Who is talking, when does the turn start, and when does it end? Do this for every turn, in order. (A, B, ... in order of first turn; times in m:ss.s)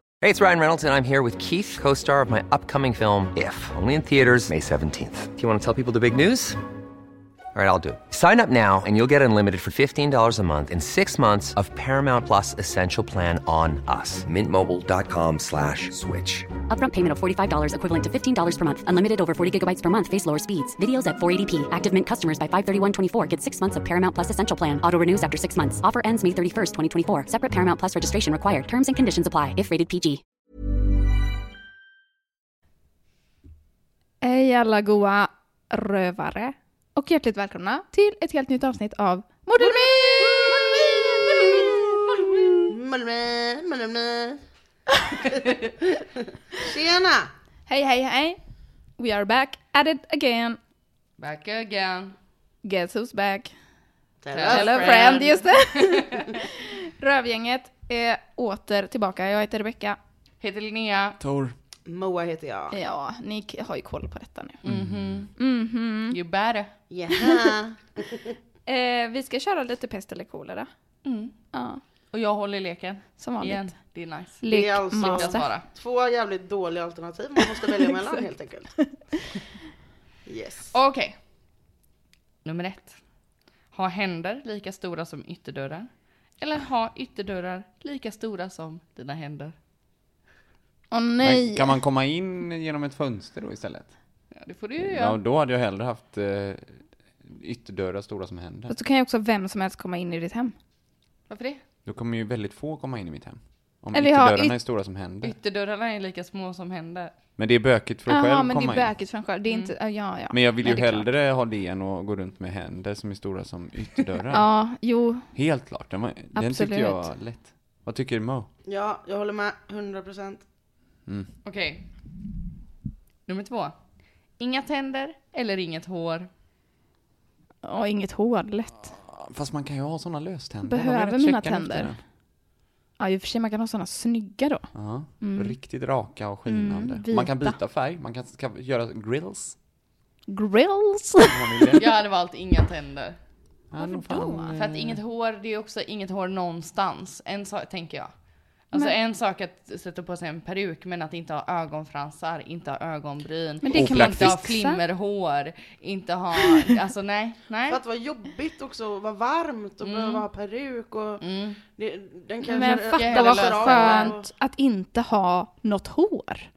0:00.2-0:06.6 A
0:07.5-0:16.5 A
0:16.7-0:30.2 B
0:34.2-0:42.5 C
0:39.6-0:41.7 D
0:42.7-0:44.4 D
0:46.5-0:47.3 D
0:47.7-0:48.4 C
0:49.0-0:50.6 C
0:51.2-0:52.2 E
0:52.6-0:53.5 C
0:54.2-0:55.2 D
0:54.3-0:56.2 E
0:54.5-1:00.0 C
1:00.4-1:01.2 E
1:01.2-1:01.5 F
1:01.8-1:02.8 D
1:02.7-1:04.6 C
1:04.6-1:05.3 F
1:05.4-1:06.2 C
1:06.1-1:06.7 E
1:06.9-1:08.3 D
1:08.7-1:10.7 C
1:11.0-1:11.3 E
1:11.5-1:11.8 C
1:12.1-1:14.4 E
1:13.2-1:13.7 C
1:14.4-1:15.5 C
1:14.5-1:18.8 D
1:15.0-1:15.6 E
1:20.2-1:20.7 D
1:20.7-1:21.2 E
1:22.4-1:23.0 E
1:23.7-1:29.5 E
1:30.9-1:31.8 C
1:31.2-1:33.9 F
1:34.3-1:35.2 E
1:34.8-1:38.7 F
1:38.7-1:40.5 C
1:41.3-1:41.6 E
1:41.8-1:45.3 F
1:43.9-1:44.6 C
1:45.2-1:47.1 E
1:47.4-1:48.9 F
1:48.1-1:51.0 C
1:49.5-1:49.7 E
1:50.3-1:54.5 F
1:54.3-1:55.3 C
1:55.3-1:58.5 F
1:56.3-1:57.1 C
1:58.6-2:00.4 D
2:01.4-2:01.8 E
2:03.3-2:03.7 E
2:04.4-2:06.3 E
2:07.6-2:08.9 C
2:08.9-2:12.0 F
2:10.6-2:11.9 C
2:13.0-2:14.7 C
2:14.7-2:19.6 F
2:15.2-2:15.6 C
2:16.4-2:17.6 C
2:20.3-2:21.3 C
2:21.3-2:21.9 F
2:21.7-2:23.2 E
2:23.7-2:25.0 F
2:23.8-2:24.5 C
2:24.6-2:28.1 E
2:28.6-2:37.8 E
2:33.6-2:34.8 C
2:33.7-2:34.4 F
2:37.7-2:44.3 D
2:39.8-2:40.3 E
2:41.2-2:41.6 E
2:42.4-2:46.5 C
2:42.6-2:44.1 E